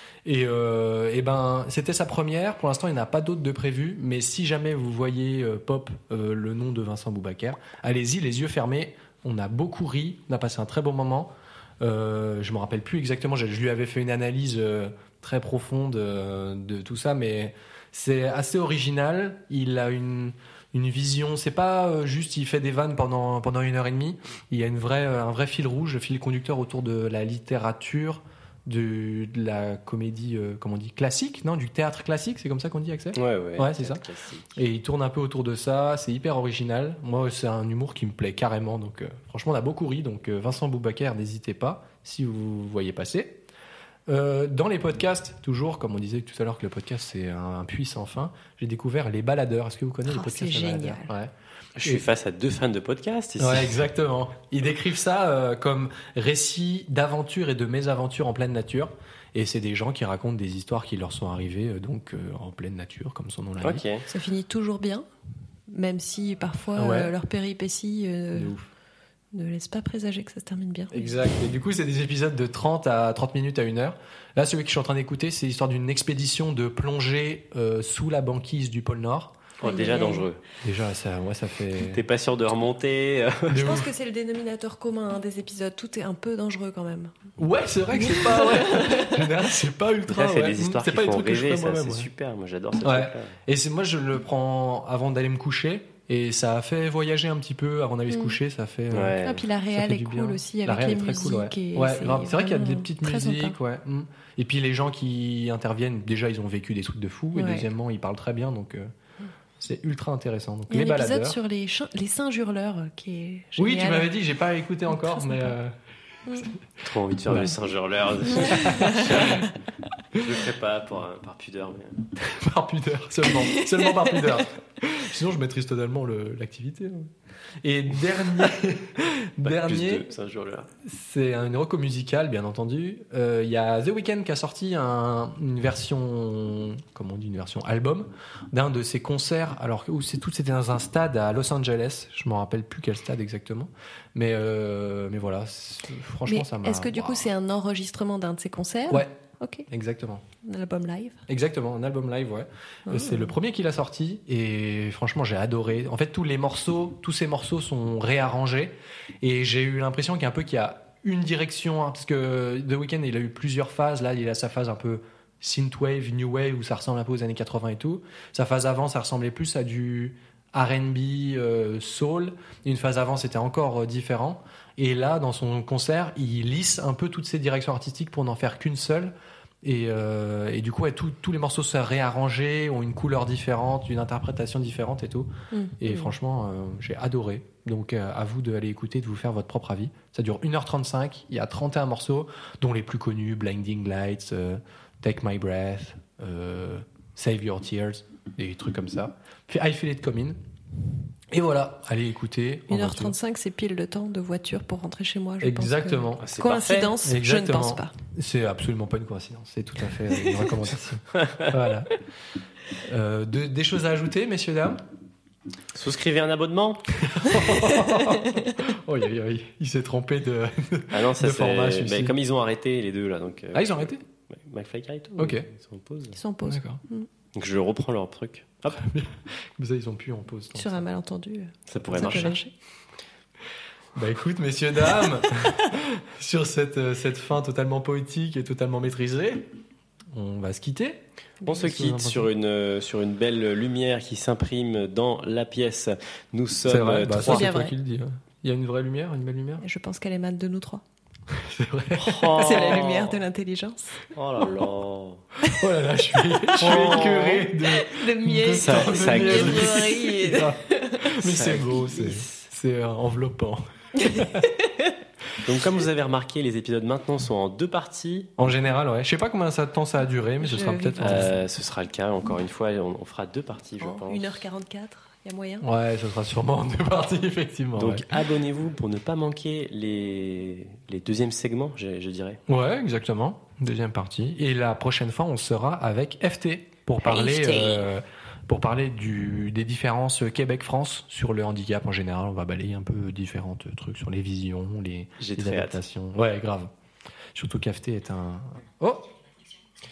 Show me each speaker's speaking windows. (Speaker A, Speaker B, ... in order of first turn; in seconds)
Speaker A: 0.2-34.0, 34.5-43.4, 44.1-51.3, 53.4-63.9, 66.8-67.1, 68.3-68.7, 70.9-79.4, 80.6-82.0, 83.5-83.9, 87.4-92.1, 92.8-108.9, 109.6-111.4, 113.6-115.8, 117.3-117.6, 118.3-119.5, 122.2-127.1, 127.6-130.1, 130.8-147.3, 149.7-150.2, 151.3-185.3, 185.8-200.4, 201.3-203.2, 205.4-206.3, 207.0-211.9, 212.8-214.8, 217.0-222.2, 223.5-224.0, 225.2-225.5, 226.5-226.8, 228.7-230.8, 231.9-232.3, 233.9-239.5, 240.1-242.3, 246.7-249.6, 251.3-252.8, 255.4-264.5, 268.4-271.3, 275.6-278.2, 282.5-296.7, 297.3-299.1
Speaker B: 33.1-34.6, 51.8-53.8, 63.6-64.1, 79.6-80.4, 81.9-83.7, 90.1-93.4, 98.9-99.4, 116.8-119.5, 120.1-122.1, 129.4-130.7, 206.2-207.0, 211.1-211.5, 215.7-217.4, 220.9-226.2, 227.3-228.8, 231.7-232.4, 241.4-247.5, 252.0-253.2, 254.1-255.2, 256.6-257.5, 258.5-260.1, 261.2-261.8, 265.4-268.3, 271.0-274.4, 277.8-282.4, 295.2-295.8
Speaker C: 50.1-51.1, 64.1-65.0, 65.7-68.5, 69.3-71.1, 79.6-80.3, 83.5-87.1, 88.0-89.2, 99.2-103.6, 107.3-107.7, 110.7-114.1, 114.9-115.5, 116.3-116.5, 118.2-119.5, 123.3-124.4, 146.3-149.7, 150.4-151.2, 152.9-153.3, 185.5-186.1, 202.7-207.9, 217.7-218.3, 226.2-227.1, 230.6-232.5, 247.1-247.8, 249.6-250.8, 252.3-254.0, 256.2-257.1, 257.6-262.2, 264.0-264.9, 270.4-271.3, 273.8-275.7, 287.1-287.8